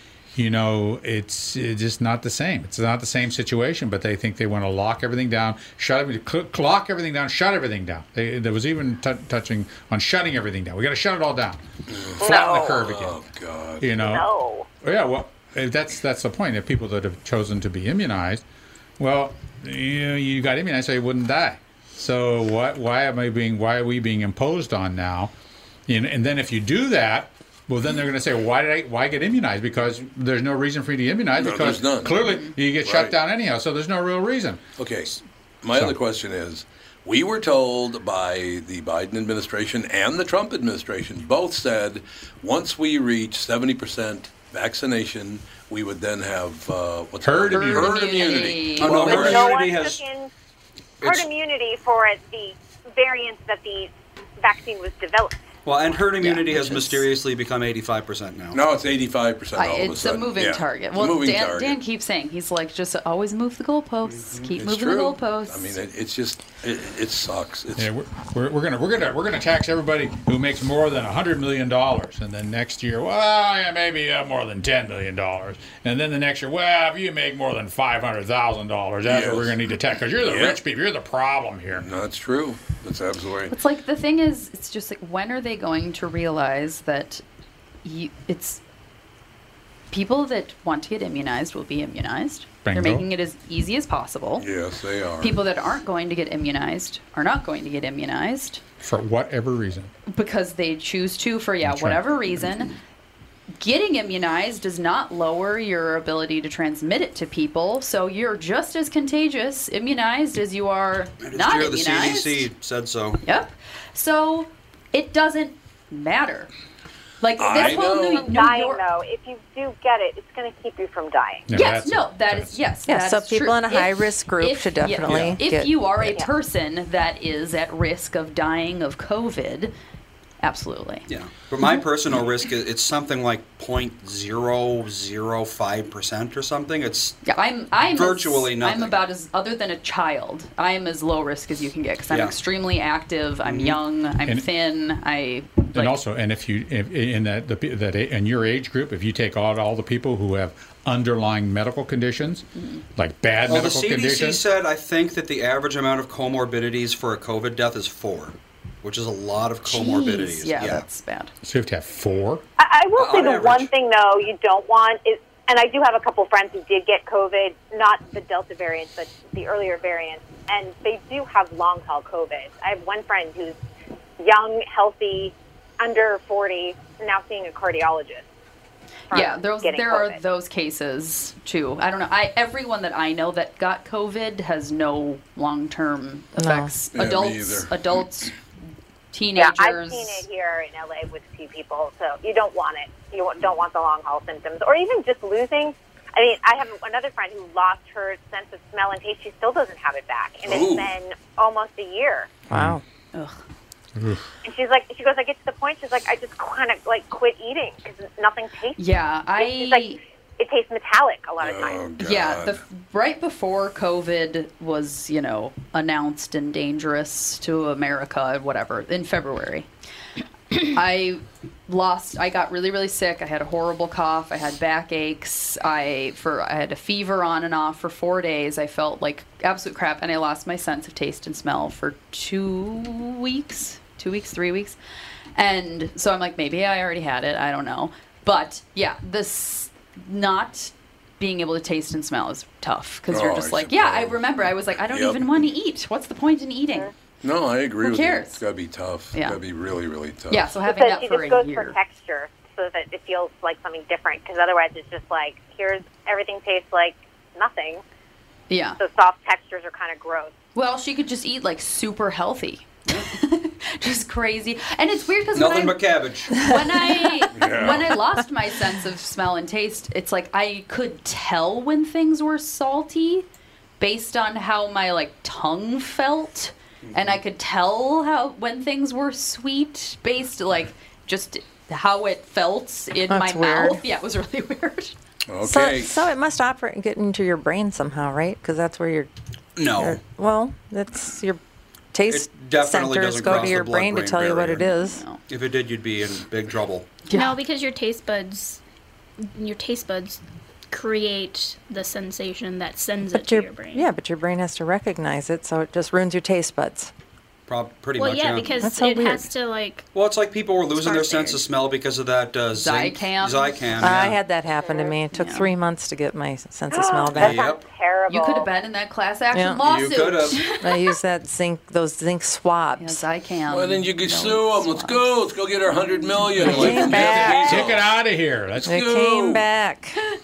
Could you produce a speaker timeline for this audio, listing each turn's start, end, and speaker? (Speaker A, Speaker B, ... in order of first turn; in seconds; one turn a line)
Speaker A: 0.3-11.6
Speaker B: 11.9-13.9
Speaker A: 12.2-13.2
Speaker C: 12.2-12.9
Speaker A: 13.8-14.3
Speaker C: 14.0-14.7
Speaker A: 14.8-18.4
Speaker A: 19.0-25.3
Speaker A: 25.9-34.6
Speaker B: 31.4-32.2
Speaker D: 32.2-32.5
Speaker B: 32.8-33.2
Speaker B: 34.8-49.5
Speaker A: 47.2-48.1
Speaker D: 47.5-49.4
Speaker E: 48.8-50.0
Speaker C: 49.1-50.3
Speaker C: 51.0-55.4
Speaker E: 55.6-58.6
Speaker D: 56.2-57.1
Speaker B: 58.5-61.8
Speaker D: 59.6-65.8
Speaker E: 64.1-64.5
Speaker B: 64.6-67.9
Speaker A: 67.8-81.9
Speaker B: 79.1-79.6
Speaker B: 80.2-80.6
Speaker B: 81.7-83.5
Speaker D: 83.5-87.2
Speaker D: 87.8-88.6
Speaker D: 89.9-94.5
Speaker A: 92.7-93.1
Speaker B: 94.4-95.4
Speaker D: 95.2-98.6
Speaker A: 98.8-99.9
Speaker D: 100.1-102.8
Speaker A: 101.6-102.0
Speaker D: 103.6-112.5
Speaker E: 111.2-113.2
Speaker D: 113.2-116.5
Speaker D: 117.2-118.8
Speaker B: 117.4-118.3
Speaker C: 117.6-121.5
Speaker A: 121.5-122.6
Speaker D: 121.5-129.7
Speaker F: 122.9-126.1
Speaker E: 125.1-125.4
Speaker D: 130.4-131.1
Speaker E: 131.1-137.2
Speaker D: 137.2-146.0
Speaker E: 137.8-139.0
Speaker E: 142.1-142.4
Speaker E: 143.4-143.8
Speaker A: 145.7-152.5
Speaker D: 152.6-152.8
Speaker A: 153.0-154.4
Speaker E: 153.5-160.8
Speaker D: 159.7-161.3
Speaker A: 161.4-162.4
Speaker C: 162.6-173.6
Speaker E: 163.0-163.7
Speaker C: 174.2-178.3
Speaker C: 179.1-180.2
Speaker D: 179.1-188.4
Speaker F: 186.4-186.7
Speaker B: 186.9-187.7
Speaker D: 189.1-190.2
Speaker C: 189.4-202.3
Speaker B: 200.5-200.9
Speaker A: 202.5-202.8
Speaker F: 202.5-202.8
Speaker A: 204.0-204.2
Speaker C: 204.4-208.8
Speaker D: 208.8-210.0
Speaker C: 209.4-211.9
Speaker B: 211.4-212.6
Speaker D: 212.0-219.7
Speaker D: 220.6-234.8
Speaker D: 235.4-246.9
Speaker B: 243.1-244.2
Speaker B: 244.9-245.2
Speaker B: 247.2-250.5
Speaker D: 247.8-248.4
Speaker D: 250.3-251.8
Speaker C: 250.7-257.8
Speaker D: 258.5-258.8
Speaker C: 258.8-260.4
Speaker D: 260.6-273.3
Speaker E: 265.3-266.5
Speaker B: 267.4-267.9
Speaker D: 273.8-284.9
Speaker E: 276.9-277.2
Speaker F: 283.1-283.8
Speaker B: 285.3-286.0
Speaker F: 285.4-289.1
Speaker E: 289.6-290.0
Speaker F: 289.7-291.4
Speaker F: 291.9-295.0
Speaker E: 292.1-294.6
Speaker D: 294.7-295.2
Speaker E: 295.3-296.9
Speaker D: 297.1-297.4
Speaker G: 297.1-298.6
Speaker G: 299.2-300.2
Speaker G: 300.7-303.9
Speaker F: 303.1-306.9
Speaker E: 307.5-308.6
Speaker G: 307.9-309.9
Speaker F: 308.6-309.3
Speaker E: 309.9-314.2
Speaker G: 310.8-311.4
Speaker D: 312.5-313.9
Speaker F: 313.8-317.4
Speaker C: 314.6-314.9
Speaker D: 315.1-315.5
Speaker C: 316.7-318.5
Speaker E: 317.1-317.6
Speaker D: 318.1-320.5
Speaker F: 319.3-319.6
Speaker E: 319.6-320.4
Speaker F: 320.6-323.0
Speaker D: 322.8-325.1
Speaker B: 323.5-327.9
Speaker F: 326.4-327.6
Speaker A: 326.4-328.7
Speaker D: 326.5-326.9
Speaker B: 328.6-329.5
Speaker F: 328.7-330.0